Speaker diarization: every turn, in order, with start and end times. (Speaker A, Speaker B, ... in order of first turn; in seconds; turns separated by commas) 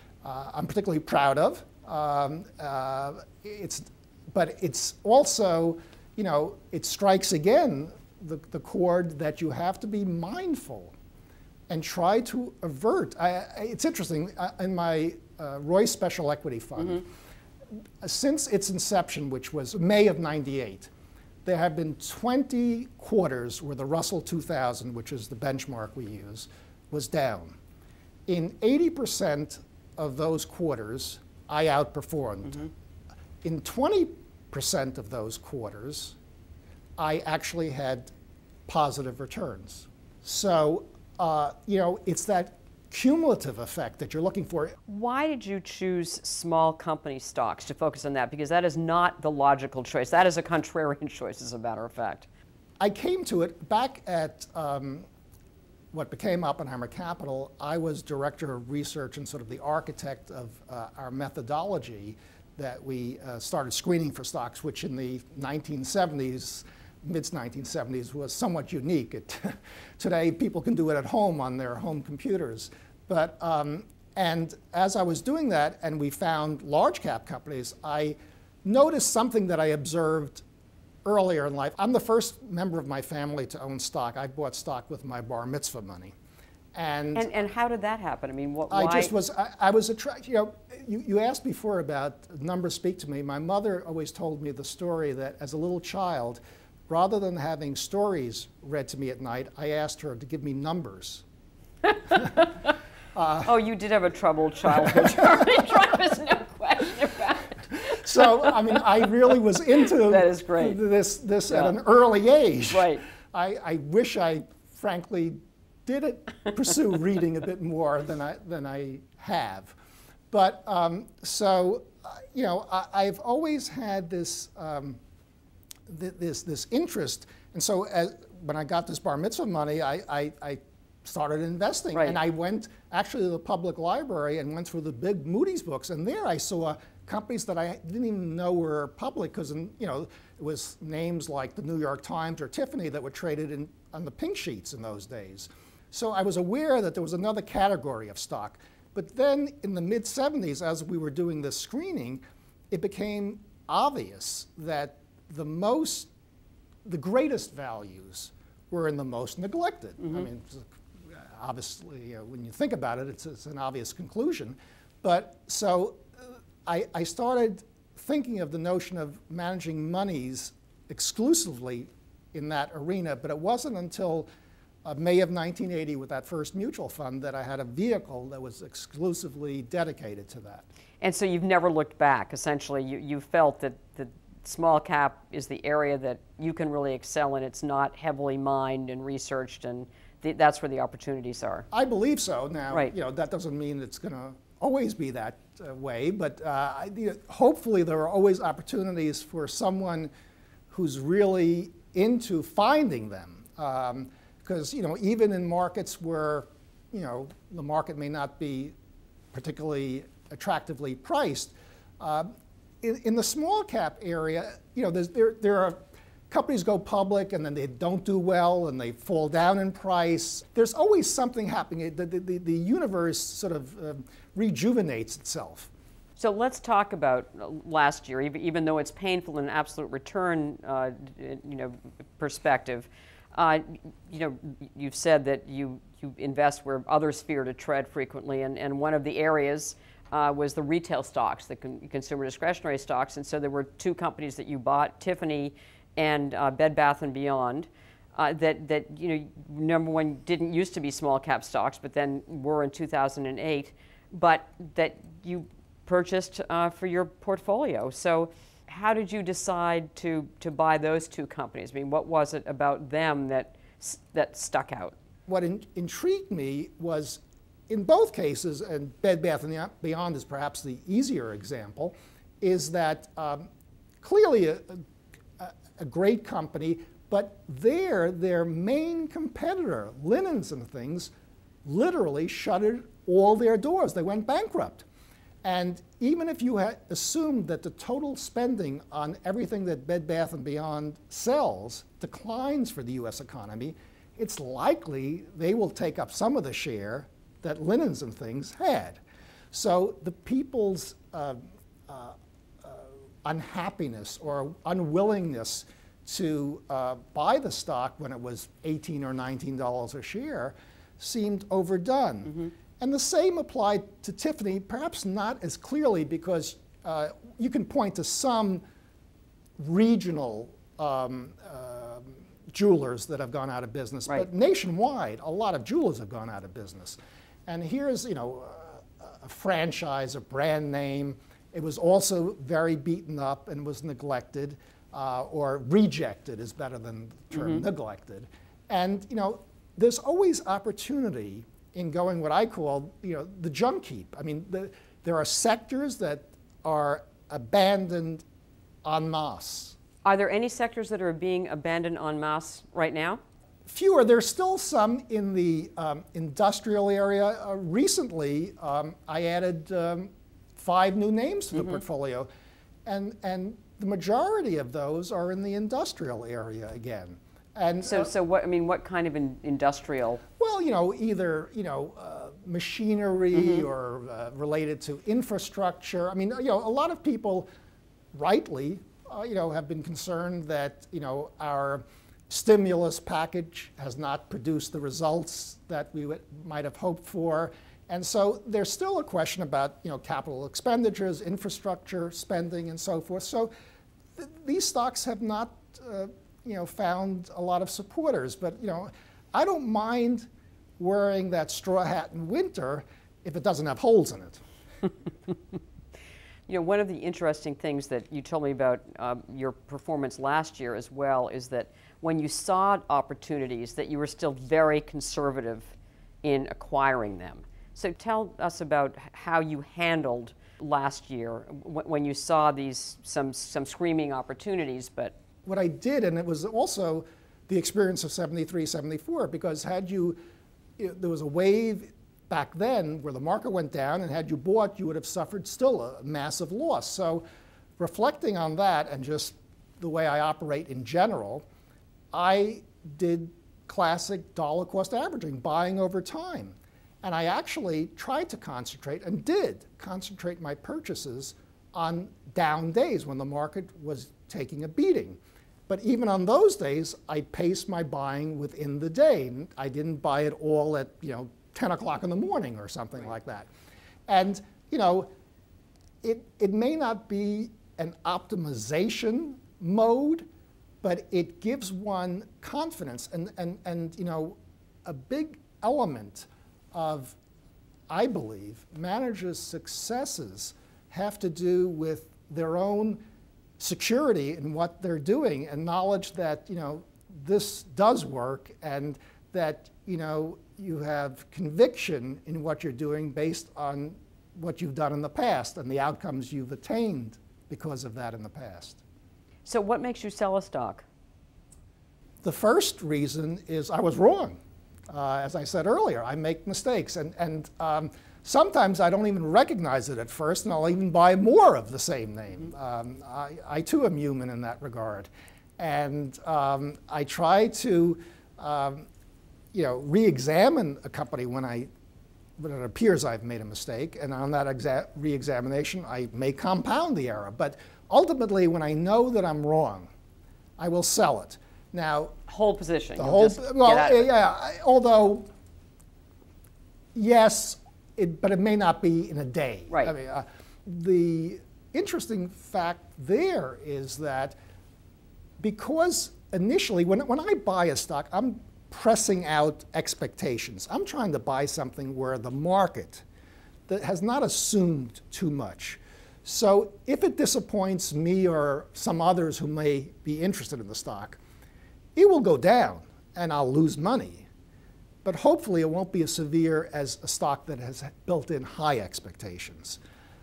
Speaker A: 0.2-10.9, Speaker A: 11.7-17.1, Speaker A: 18.0-20.9, Speaker A: 21.4-27.6, Speaker A: 28.3-32.7, Speaker A: 33.4-36.1, Speaker A: 37.0-38.1, Speaker A: 38.6-44.8, Speaker B: 44.9-52.3, Speaker A: 52.8-55.1, Speaker A: 55.9-80.4, Speaker A: 81.0-86.1, Speaker A: 86.7-87.3, Speaker B: 87.1-89.1, Speaker A: 88.7-101.2, Speaker B: 102.1-102.4, Speaker A: 103.1-103.5, Speaker B: 103.4-108.0, Speaker A: 104.7-105.8, Speaker A: 107.7-119.7, Speaker B: 110.0-110.8, Speaker B: 112.7-113.0, Speaker A: 120.3-125.0, Speaker A: 125.9-156.1, Speaker A: 156.8-174.3, Speaker A: 174.8-180.6, Speaker B: 181.0-191.7, Speaker A: 191.7-200.1, Speaker A: 200.7-208.7, Speaker A: 209.3-215.8, Speaker A: 216.3-225.7, Speaker B: 226.2-264.9, Speaker A: 265.3-273.5, Speaker A: 274.0-274.8, Speaker A: 275.4-281.1, Speaker A: 281.6-284.8, Speaker A: 285.4-299.0, Speaker A: 299.5-318.6, Speaker A: 319.6-348.2, Speaker A: 348.8-349.8, Speaker B: 350.0-353.2, Speaker A: 353.6-362.3, Speaker A: 362.9-368.1, Speaker B: 367.8-370.2, Speaker A: 370.4-377.5, Speaker B: 373.3-373.6, Speaker A: 378.1-393.5, Speaker A: 394.1-404.4, Speaker B: 406.5-425.1, Speaker A: 425.4-430.2, Speaker A: 430.8-437.2, Speaker A: 437.8-441.4, Speaker A: 442.1-463.5, Speaker A: 464.1-465.1, Speaker A: 466.0-470.3, Speaker A: 470.8-477.1, Speaker A: 477.9-483.0, Speaker A: 483.6-498.8, Speaker B: 499.4-500.8, Speaker A: 502.2-518.9, Speaker A: 519.5-521.7, Speaker A: 522.4-529.9, Speaker A: 530.6-532.1, Speaker B: 532.3-534.0, Speaker A: 533.0-535.3, Speaker A: 536.9-544.4, Speaker A: 545.4-553.0, Speaker A: 553.7-561.2, Speaker A: 562.0-564.3, Speaker A: 565.0-569.8